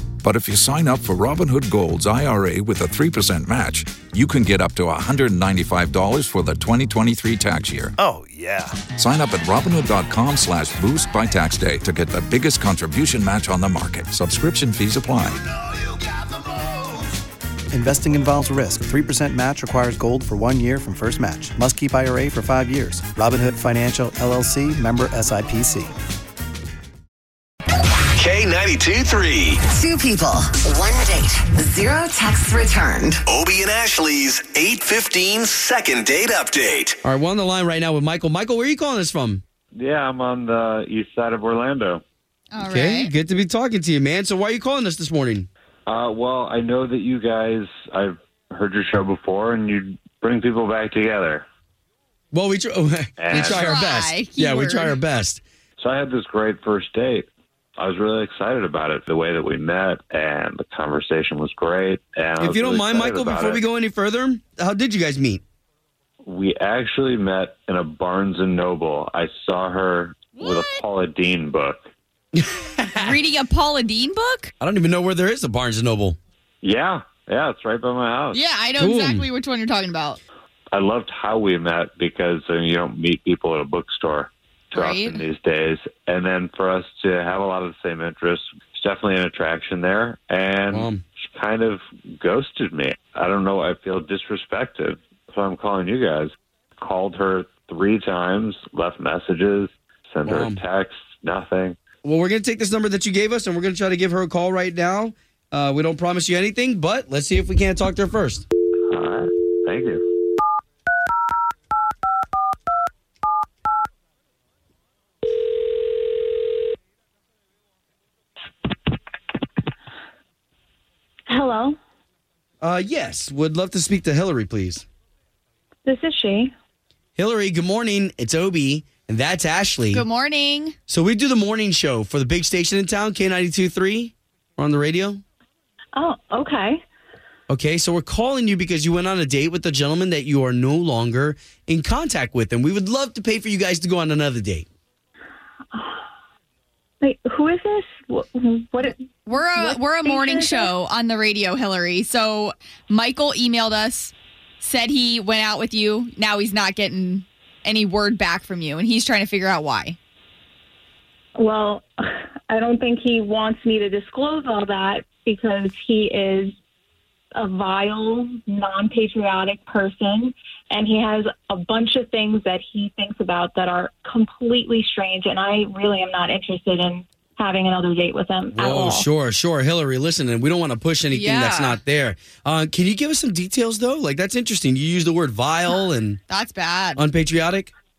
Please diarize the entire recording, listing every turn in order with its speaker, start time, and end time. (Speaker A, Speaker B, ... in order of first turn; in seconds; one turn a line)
Speaker A: 0.2-7.9
Speaker A: 8.8-15.4
Speaker B: 17.7-25.9
Speaker C: 28.1-29.6
Speaker D: 29.7-33.2
Speaker C: 33.3-37.0
Speaker E: 37.0-39.4
Speaker F: 39.7-42.0
Speaker G: 42.5-43.1
Speaker E: 42.6-45.5
Speaker F: 45.9-51.4
Speaker E: 52.3-55.4
Speaker F: 53.2-53.7
Speaker G: 53.3-55.0
Speaker F: 55.8-63.6
Speaker E: 62.4-65.4
Speaker F: 66.2-71.9
Speaker G: 70.4-70.8
Speaker E: 72.3-73.2
Speaker G: 73.0-74.5
Speaker E: 74.6-76.2
Speaker F: 76.6-78.4
Speaker G: 78.3-80.2
Speaker E: 78.8-79.3
Speaker F: 80.7-101.8
Speaker G: 84.7-85.2
Speaker E: 90.7-91.0
Speaker E: 100.2-100.6
Speaker E: 102.0-108.5
Speaker F: 108.9-110.0
Speaker H: 121.3-121.8
Speaker E: 122.6-124.8
Speaker H: 125.8-126.5
Speaker E: 127.2-130.1
Speaker G: 129.9-130.8
Speaker E: 130.9-135.2
Speaker H: 135.9-136.8
Speaker E: 137.5-144.7
Speaker H: 145.7-146.0
Speaker H: 147.0-150.7
Speaker G: 149.3-160.0
Speaker H: 161.3-166.5
Speaker H: 167.3-179.1
Speaker E: 178.5-186.2
Speaker G: 181.1-181.8
Speaker G: 186.3-187.0
Speaker E: 186.9-187.7